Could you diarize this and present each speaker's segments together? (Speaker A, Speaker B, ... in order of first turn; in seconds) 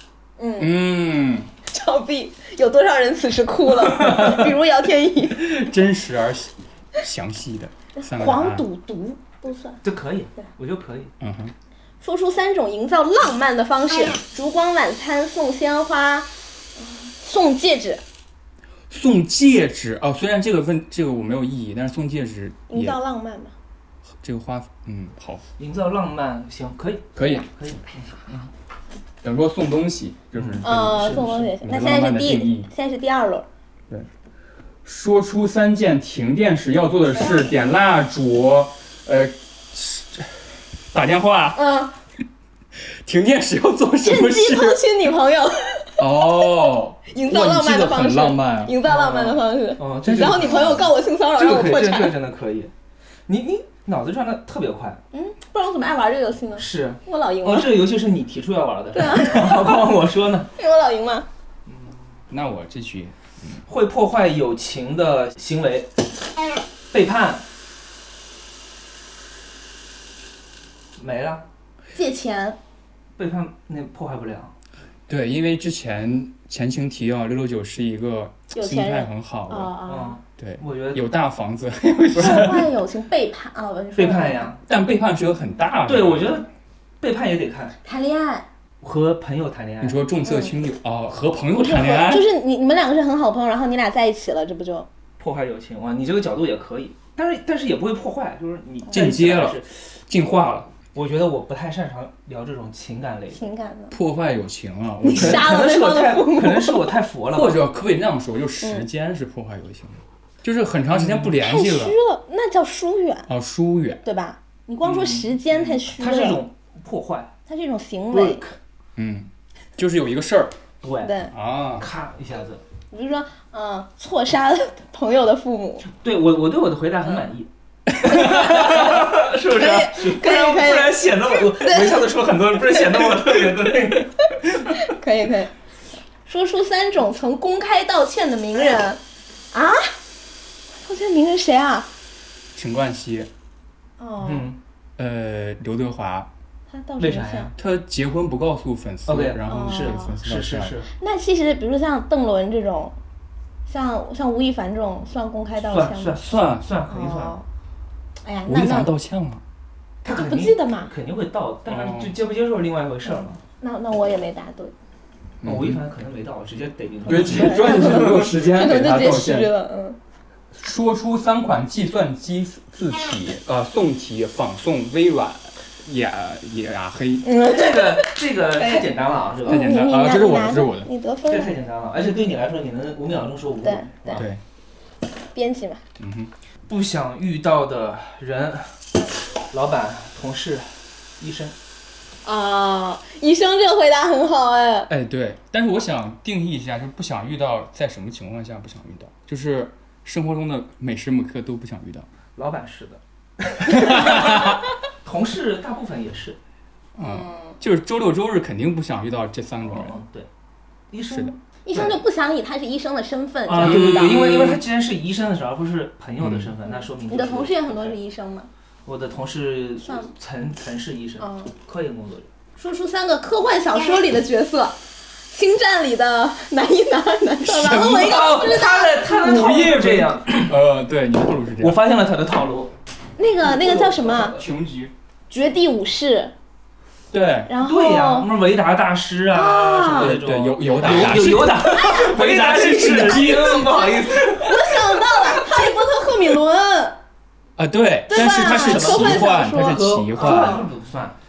Speaker A: 0.4-0.7, 1.7-5.6, 8.0-9.8, 12.0-18.0, 22.7-23.5, 30.6-33.5, 41.5-41.9, 44.0-46.0, 47.1-52.1, 55.1-57.8, 58.9-59.9, 60.6-61.3, 72.0-72.6, 78.5-80.2, 82.2-84.5, 87.8-88.5, 90.2-90.5, 91.5-94.9, 103.3-104.0, 105.0-106.9, 108.6-108.9, 111.4-113.3, 114.0-116.4, 117.5-118.4, 121.0-121.3, 122.9-125.9, 128.1-132.1, 132.7-133.4, 134.7-135.5, 136.3-139.0, 139.5-139.9, 140.8-141.9, 144.0-144.5, 146.7-147.5, 149.5-150.2, 150.9-152.9, 153.7-156.2, 156.9-157.4, 158.2-158.9, 160.1-160.9, 163.6-164.7, 167.1-170.0, 177.2-178.9, 179.5-181.5, 183.6-184.2, 185.3-185.8, 192.2-194.9, 207.0-207.6, 211.7-214.4, 217.1-218.5, 219.8-220.1, 221.2-221.5, 222.6-224.8, 225.3-229.7, 233.2-234.4, 235.3-236.3, 237.5-238.3, 239.3-240.2, 241.6-247.0, 248.1-250.7
Speaker B: 0.6-1.5, 5.3-8.7, 11.2-11.5, 18.9-23.0, 24.1-25.4, 27.2-27.5, 29.2-32.7, 34.9-40.4, 40.9-41.6, 42.8-44.8, 46.0-48.8, 50.0-50.8, 62.3-63.6, 75.1-79.7, 80.4-82.7, 84.7-86.4, 89.8-92.3, 98.9-100.7, 103.9-105.6, 107.3-112.0, 113.3-114.0, 119.0-120.6, 121.3-121.9, 128.1-128.5, 142.6-143.3, 145.0-146.3, 147.6-150.8, 156.2-156.7, 158.5-159.4, 161.7-162.2, 165.4-165.8, 167.1-169.5, 170.5-177.3, 179.4-180.9, 184.2-184.4, 186.0-186.3, 194.9-202.1, 203.7-204.6, 207.0-210.0, 213.6-214.6, 216.2-216.5, 227.4-228.2, 229.2-231.8, 233.6-234.9, 237.1-237.5, 239.9-243.9, 247.6-250.7
Speaker C: 4.0-4.4, 9.8-11.1, 25.6-28.5, 30.4-31.4, 48.9-52.7, 53.3-55.0, 56.6-60.5, 61.7-62.0, 63.7-65.9, 66.9-67.4, 71.0-71.5, 73.2-74.5, 79.9-81.0, 82.2-82.5, 84.0-84.6, 85.9-86.5, 87.0-87.8, 88.8-90.0, 95.2-99.9, 100.9-103.5, 105.1-107.6, 110.9-111.3, 114.8-117.3, 118.1-118.6, 120.8-121.2, 121.8-122.6, 125.9-134.8, 144.2-144.6, 147.0-147.6, 149.1-150.9, 155.6-157.4, 160.0-163.4, 165.4-168.1, 177.4-179.7, 181.3-184.3, 186.7-188.7, 189.5-191.6, 202.4-206.4, 209.6-210.3, 210.9-212.0, 213.5-218.0, 218.9-222.3, 227.7-230.6, 231.6-232.7, 237.6-244.8, 248.1-251.2